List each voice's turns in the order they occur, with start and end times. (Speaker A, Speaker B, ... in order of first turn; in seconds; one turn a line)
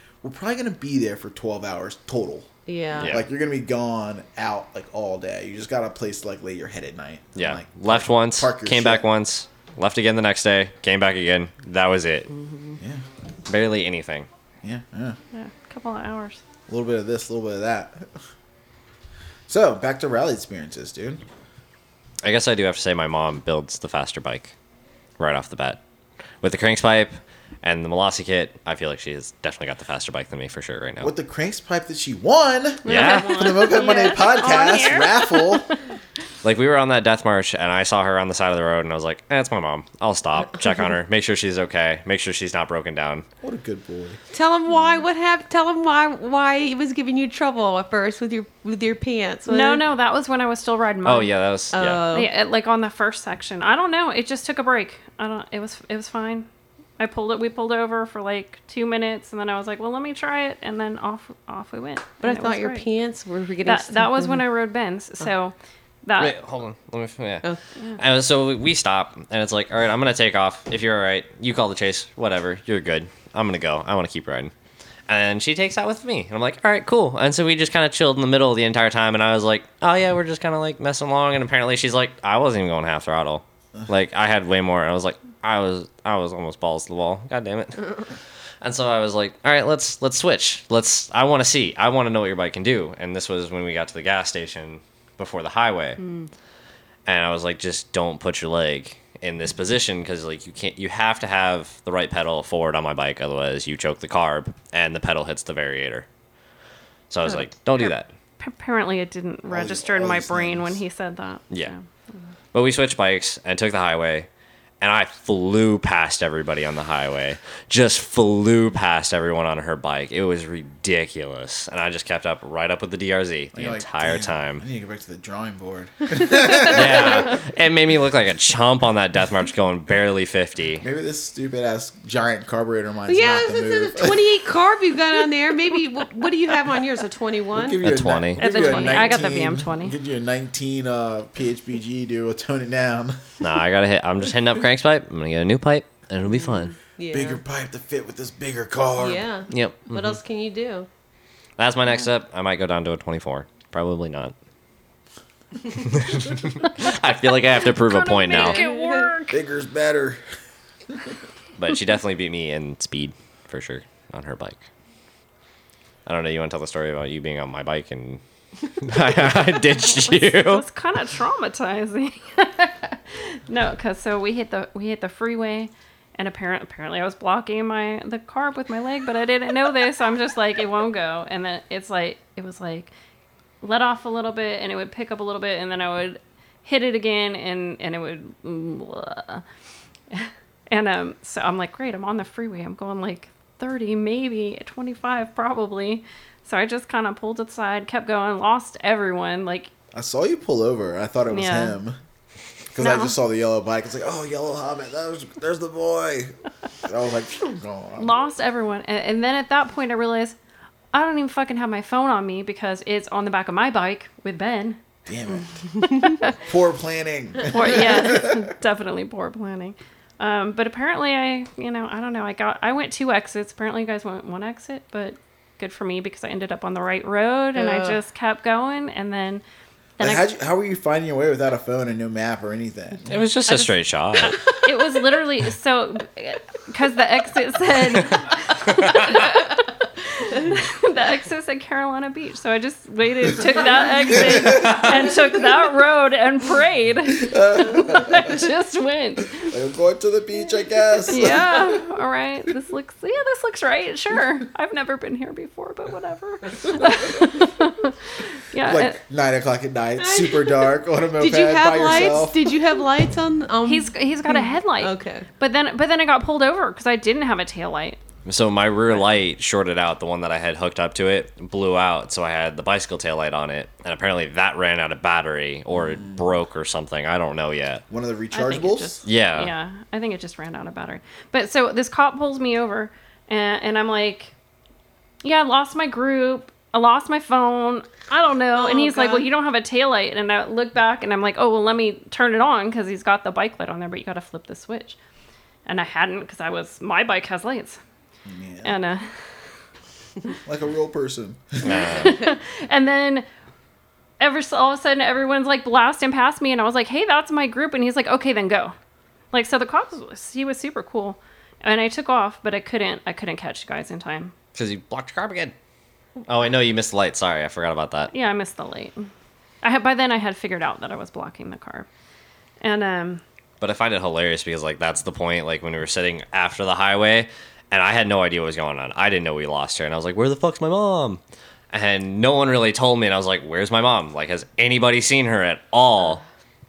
Speaker A: 0.2-2.5
Speaker B: 2.7-3.2
Speaker C: 3.0-3.2
Speaker A: 3.0-9.1
Speaker C: 7.4-12.3
Speaker C: 13.5-14.3
Speaker A: 14.6-15.2
Speaker D: 15.3-16.4
Speaker A: 16.7-18.1
Speaker A: 19.5-21.2
Speaker C: 22.2-24.5
Speaker C: 25.2-25.8
Speaker C: 26.4-31.1
Speaker A: 31.0-35.7
Speaker D: 32.9-35.6
Speaker C: 32.9-33.7
Speaker C: 36.4-43.2
Speaker A: 43.4-44.2
Speaker B: 44.3-49.8
Speaker D: 49.5-51.3
Speaker C: 51.0-52.0
Speaker B: 51.7-52.3
Speaker D: 52.1-56.5
Speaker D: 57.0-62.9
Speaker B: 62.2-64.5
Speaker D: 63.6-66.3
Speaker C: 66.2-67.5
Speaker C: 68.0-74.5
Speaker C: 75.1-87.8
Speaker C: 88.6-96.0
Speaker B: 96.0-96.3
Speaker C: 97.1-106.1
Speaker C: 107.1-108.1
Speaker D: 107.3-111.8
Speaker A: 109.5-110.8
Speaker C: 112.5-114.3
Speaker C: 114.8-124.6
Speaker A: 123.5-127.2
Speaker C: 126.6-130.8
Speaker A: 130.8-134.2
Speaker B: 133.1-137.8
Speaker A: 137.6-143.2
Speaker C: 137.8-138.5
Speaker D: 138.4-139.9
Speaker B: 138.6-139.1
Speaker C: 143.4-146.7
Speaker B: 146.3-147.4
Speaker A: 147.1-149.2
Speaker B: 149.0-150.9
Speaker C: 149.5-150.2
Speaker C: 151.6-154.3
Speaker C: 155.8-158.6
Speaker D: 157.8-159.4
Speaker B: 158.3-159.1
Speaker A: 159.3-160.2
Speaker C: 161.6-164.6
Speaker C: 166.1-168.2
Speaker C: 168.8-170.6
Speaker D: 169.8-182.9
Speaker D: 183.6-189.4
Speaker D: 190.1-199.7
Speaker A: 199.9-202.0
Speaker D: 201.3-201.8
Speaker A: 202.7-206.3
Speaker D: 202.8-203.1
Speaker A: 206.9-208.1
Speaker D: 208.0-210.4
Speaker D: 210.9-214.8
Speaker A: 215.1-215.6
Speaker D: 215.3-216.4
Speaker A: 216.4-218.4
Speaker D: 217.5-229.4
Speaker B: 227.5-228.0
Speaker D: 230.0-230.2
Speaker A: 230.0-233.2
Speaker C: 233.1-234.4
Speaker D: 233.5-239.6
Speaker D: 240.2-249.5
Speaker A: 244.1-244.9
Speaker A: 247.2-248.4
Speaker A: 249.4-251.7
Speaker D: 251.1-259.0
Speaker A: 258.6-262.5
Speaker B: 260.0-265.3
Speaker D: 263.6-268.0
Speaker C: 268.3-277.8
Speaker A: 275.7-276.2
Speaker A: 277.9-279.0
Speaker D: 278.3-284.3
Speaker C: 279.1-279.5
Speaker D: 285.2-295.0
Speaker B: 288.5-289.3
Speaker D: 295.7-297.8
Speaker A: 298.2-298.8
Speaker D: 298.6-299.1
Speaker A: 300.4-301.6
Speaker C: 301.6-302.2
Speaker D: 301.6-303.3
Speaker D: 304.2-308.8
Speaker D: 309.3-314.3
Speaker C: 314.6-315.5
Speaker C: 316.3-318.1
Speaker D: 318.1-319.1
Speaker D: 319.6-321.9
Speaker D: 322.6-323.2
Speaker C: 323.6-331.2
Speaker C: 331.7-336.2